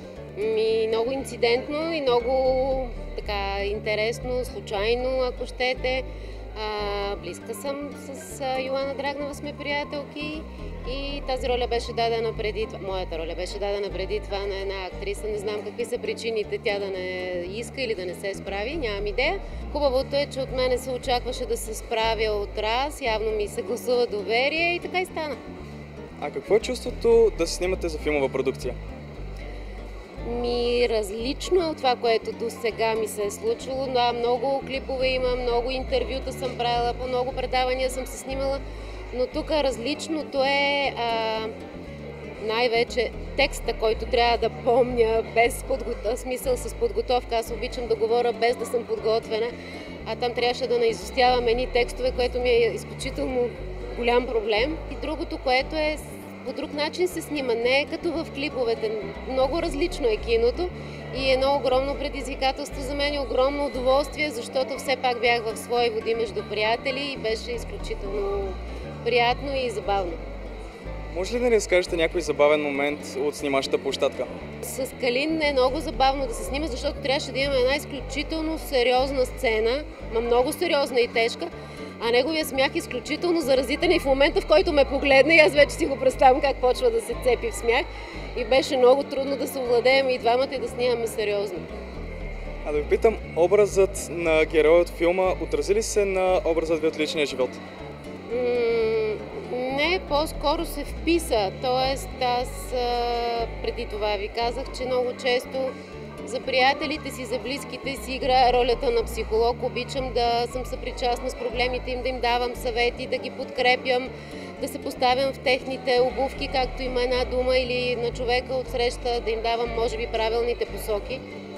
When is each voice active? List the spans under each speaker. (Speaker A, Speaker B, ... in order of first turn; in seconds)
Speaker A: 0.3-25.4, 30.2-38.6, 39.1-41.5, 42.4-49.5, 50.0-70.2, 74.6-91.7, 98.3-121.2
Speaker B: 26.2-28.8, 71.1-74.3, 92.6-97.6